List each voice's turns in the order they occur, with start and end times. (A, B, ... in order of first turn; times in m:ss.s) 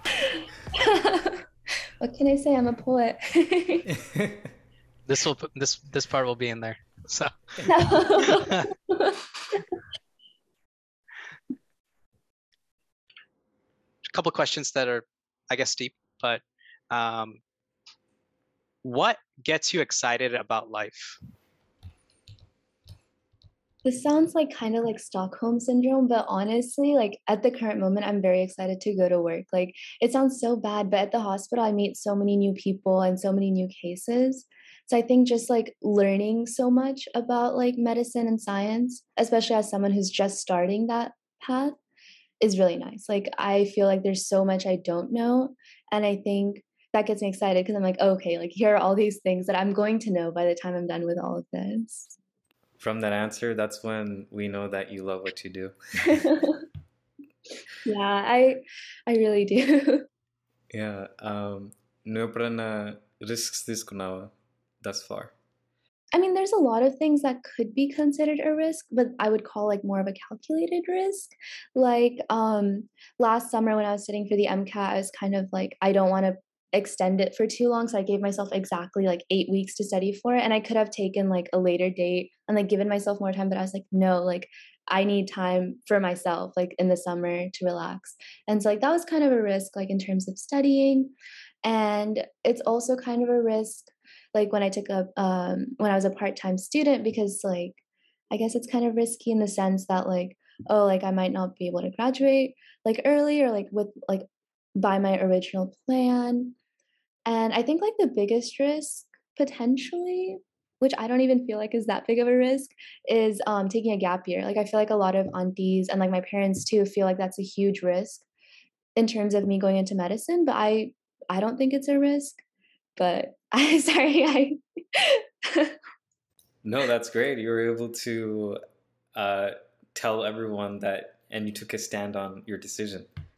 0:00.3-0:01.4 A
0:02.0-0:03.9 A
0:05.1-0:07.3 B
0:07.6-0:09.2 A
0:08.2-0:08.7 B
0:14.1-0:17.4 B
0:18.8-0:21.2 B
0:23.8-0:41.8 A
0:42.4-0:52.2 A
0:52.8-0:56.3 C
0:56.2-0:56.6 A
0:57.8-1:00.0 A
1:00.7-1:05.3 C
1:06.1-1:31.1 A
1:31.6-1:37.8 A
1:38.3-1:46.6 A
1:47.3-1:58.3 A
1:59.0-2:02.4 A
2:03.0-2:05.8 A
2:06.6-2:08.6 C
2:09.2-2:13.1 C